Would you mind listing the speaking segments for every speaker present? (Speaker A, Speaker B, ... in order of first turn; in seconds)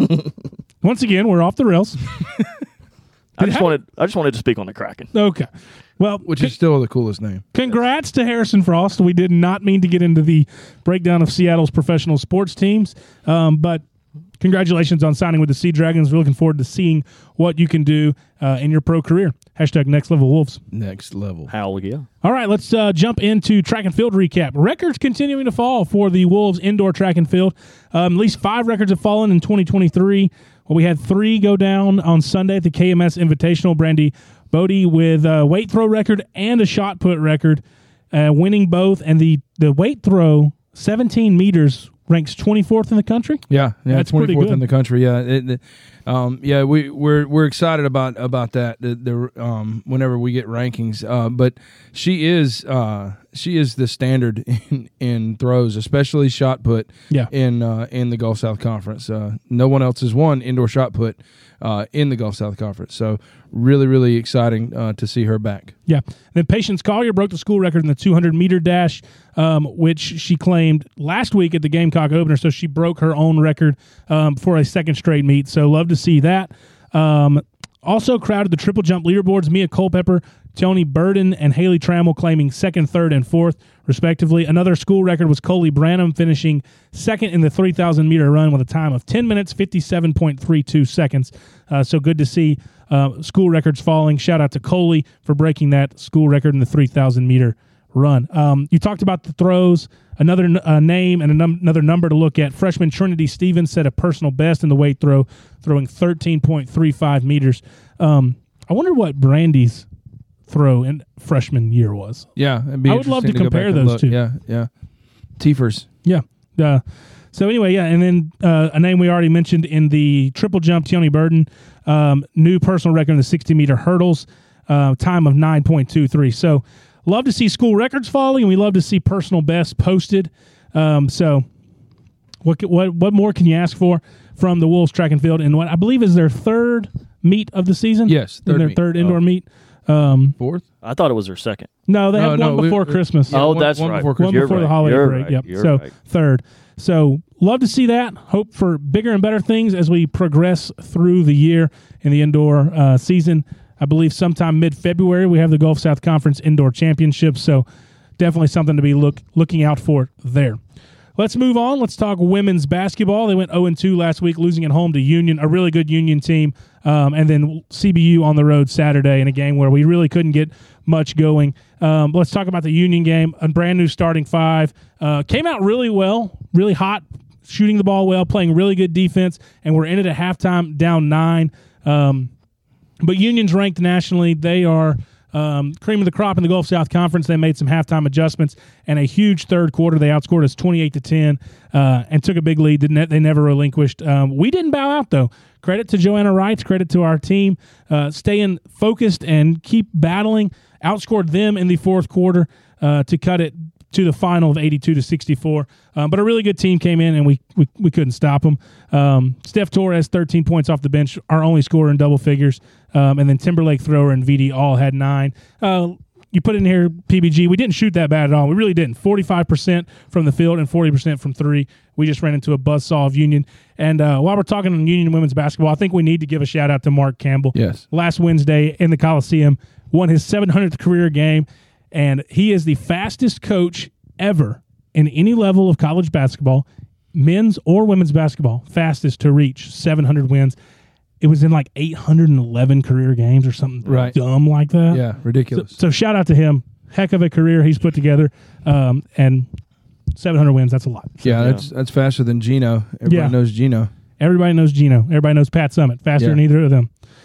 Speaker A: 0.8-2.0, 3.4-3.8, 5.1-5.5, 6.0-6.5, 7.5-13.8, 14.4-20.6, 22.2-44.6, 65.9-109.8, 110.5-112.3, 112.9-114.2, 116.0-116.8, 117.3-131.4, 132.4-140.4, 141.9-143.4, 144.2-157.6, 158.2-160.6, 161.2-182.3, 183.0-240.5, 241.2-249.5, 250.2-251.5, 253.1-253.3, 254.2-256.9
Speaker B: 3.4-5.1, 21.5-22.1, 140.8-141.7, 143.3-145.9, 251.4-251.6
Speaker C: 6.2-7.4, 20.7-21.5, 43.5-65.7, 112.3-114.7, 115.4-115.9, 138.1-139.2, 140.4-140.6, 142.1-144.7, 227.5-227.8, 243.8-244.2, 244.9-245.8, 251.2-253.9